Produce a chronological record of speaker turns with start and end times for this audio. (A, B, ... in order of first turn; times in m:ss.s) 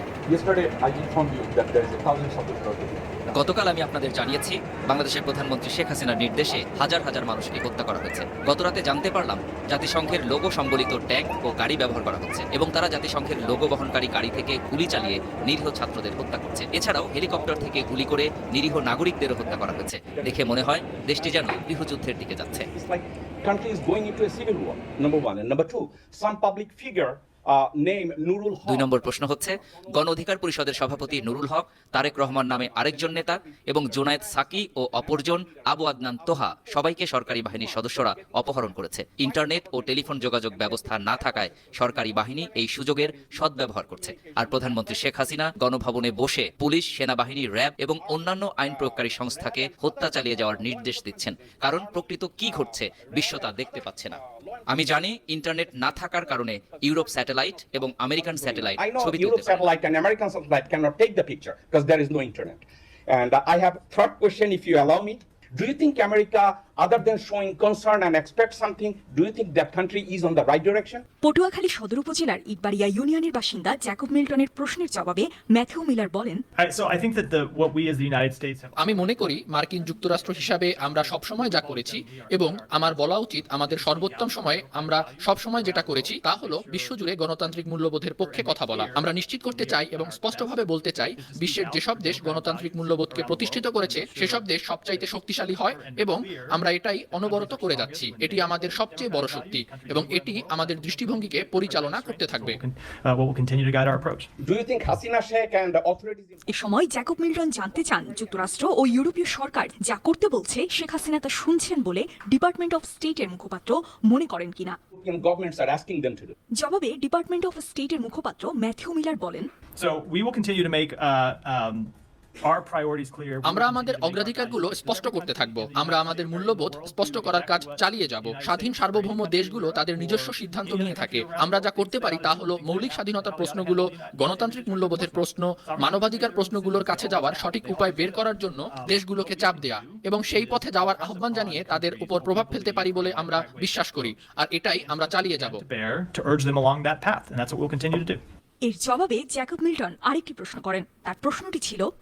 0:00.3-0:03.1 A
0:03.3-0:22.7 B
0:10.1-0:11.7 A
0:13.4-0:15.4 A
0:16.7-0:22.0 A
0:22.6-0:45.5 A
0:28.7-0:54.2 B
0:46.1-0:46.5 A
0:48.0-1:11.0 A
0:54.7-0:59.7 B
1:11.2-1:16.4 C
1:16.6-1:27.1 D
1:18.8-1:42.6 E
1:28.2-1:44.3 D
1:44.4-1:49.4 A
1:46.5-1:54.8 C
1:55.0-1:56.3 A
1:56.6-1:59.5 C
1:59.8-2:01.9 D
2:02.4-2:28.2 D
2:03.5-2:25.6 E
2:28.6-2:31.9 C